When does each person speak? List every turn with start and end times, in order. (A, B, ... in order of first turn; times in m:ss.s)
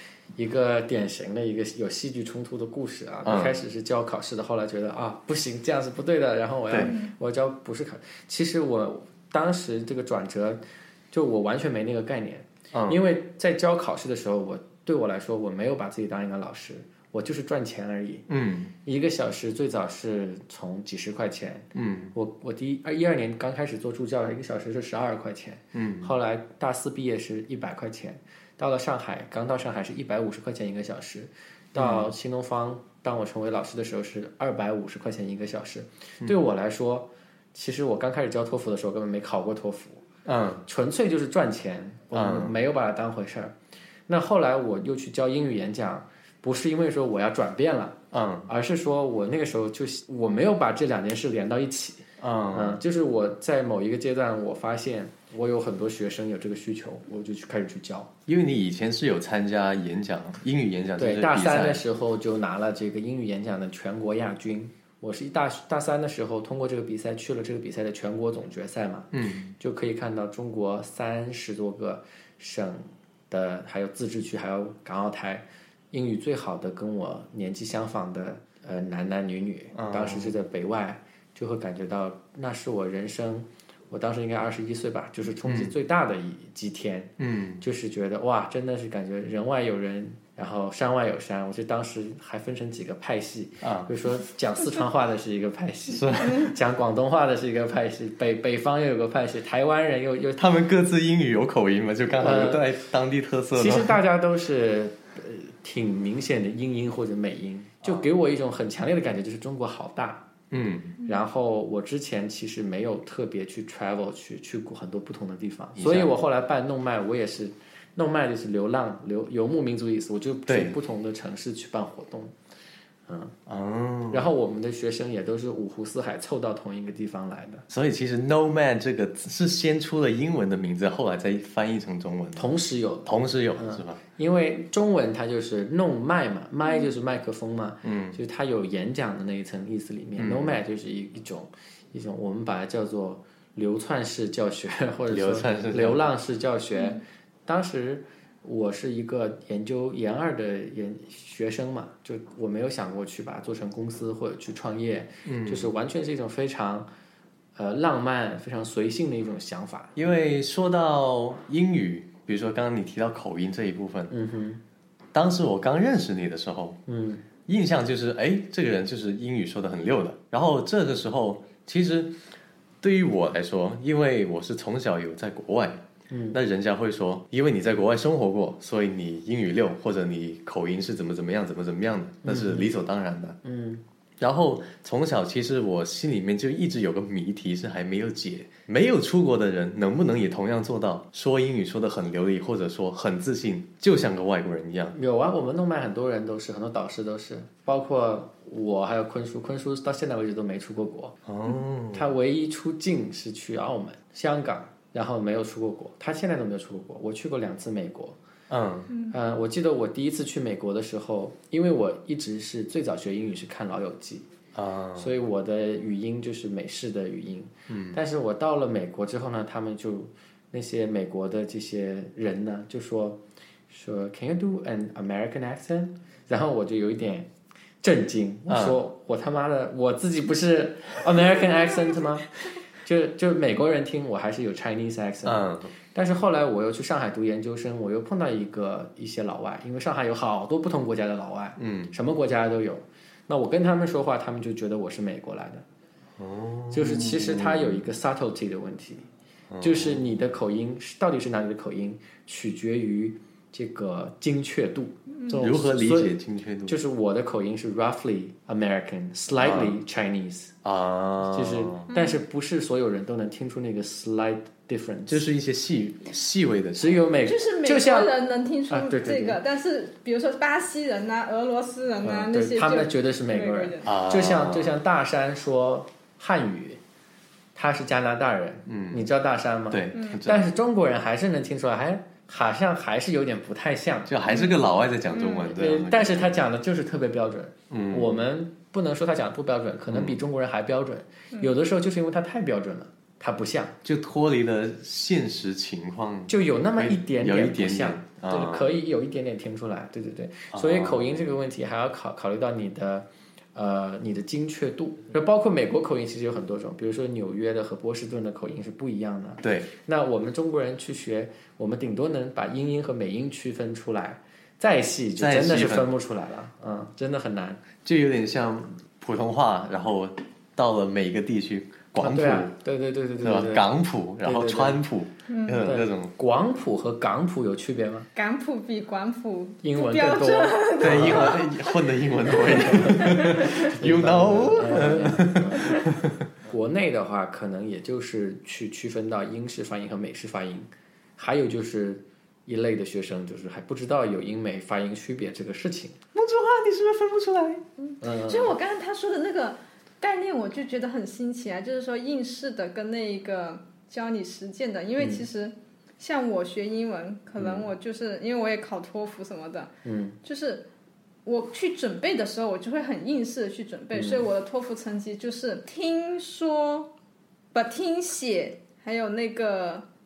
0:00.4-0:18.3 A
0:03.2-0:03.6 B
0:06.7-0:07.0 B
0:06.8-0:07.1 C
0:12.7-0:13.0 B
0:18.3-0:18.7 B
0:18.8-0:40.0 A
0:21.8-0:22.1 B
0:25.7-0:26.1 B
0:31.8-0:32.1 B
0:40.2-0:40.6 B
0:40.7-0:43.5 A
0:42.1-0:42.6 B
0:44.1-0:58.1 A
0:48.1-0:48.5 B
0:52.2-0:52.8 B
0:58.3-1:01.8 B
1:01.0-1:40.4 A
1:09.1-1:09.5 B
1:19.8-1:20.4 B
1:25.4-1:25.8 B
1:27.2-1:27.6 B
1:33.6-1:33.9 B
1:35.9-1:36.5 B
1:40.4-1:44.0 B
1:42.2-1:42.6 A
1:43.6-1:50.3 A
1:50.5-1:51.0 B
1:51.0-2:02.3 A
1:55.8-1:56.1 B
2:00.5-2:00.8 B
2:03.1-2:03.4 A
2:03.5-2:04.3 B
2:04.1-2:07.6 A
2:07.7-2:12.5 B
2:12.4-2:36.9 A
2:13.0-2:14.0 B
2:17.8-2:18.2 B
2:20.2-2:20.6 B
2:25.1-2:26.0 B
2:35.2-2:35.7 B
2:37.6-2:39.9 A
2:40.0-2:44.1 B
2:44.1-2:44.6 A
2:45.1-2:46.8 B
2:46.9-2:47.2 A
2:47.5-2:52.2 B
2:52.8-3:03.4 B
2:56.1-2:56.4 A
3:02.2-3:02.7 A
3:03.4-3:03.8 A
3:04.2-3:15.0 B
3:15.0-3:21.2 A
3:21.3-3:22.1 B
3:21.9-3:28.2 A
3:28.5-3:28.9 B
3:28.9-3:29.2 C
3:29.1-3:34.3 A
3:34.6-3:35.1 B
3:35.0-3:47.3 A
3:37.7-3:38.0 B
3:47.8-3:52.3 A
3:48.5-3:48.8 B
3:52.8-4:05.6 A
3:55.2-3:55.7 B
4:01.6-4:02.0 B
4:06.2-4:07.9 B
4:06.7-4:09.0 A
4:09.5-4:10.1 B
4:09.6-4:16.2 A
4:15.3-4:16.8 B
4:16.7-4:20.5 A
4:19.4-4:19.8 B
4:20.6-4:21.9 B
4:21.2-4:25.3 A
4:21.9-4:22.2 C
4:25.1-4:27.1 B
4:26.8-4:28.1 A
4:27.2-4:33.9 C
4:28.7-4:29.4 A
4:32.0-4:36.8 A
4:33.8-4:34.8 B
4:37.6-4:44.2 A
4:38.7-4:39.0 B
4:39.7-4:40.5 B
4:39.9-4:40.2 C
4:44.1-4:46.4 B
4:44.3-4:44.6 C
4:45.1-4:45.5 C
4:45.4-4:53.8 A
4:47.7-4:48.2 B
4:49.9-4:50.2 B
4:53.8-4:58.7 B
4:56.3-5:17.6 A
5:00.5-5:01.2 B
5:09.4-5:09.7 B
5:15.2-5:15.9 B
5:17.8-5:22.5 B
5:22.0-5:23.7 A
5:23.2-5:26.1 B
5:24.2-5:24.8 A
5:25.3-5:25.7 C
5:25.6-5:28.1 A
5:28.2-5:33.7 C
5:29.6-5:31.4 A
5:30.8-5:36.3 B
5:32.7-5:35.9 A
5:36.5-5:46.0 A
5:46.1-5:47.6 B
5:47.8-5:59.7 C
5:48.0-5:48.6 A
5:57.4-5:57.6 A
5:59.8-6:00.2 A
6:00.2-6:00.7 C
6:01.2-6:06.9 C
6:04.0-6:04.3 A
6:07.5-6:09.9 C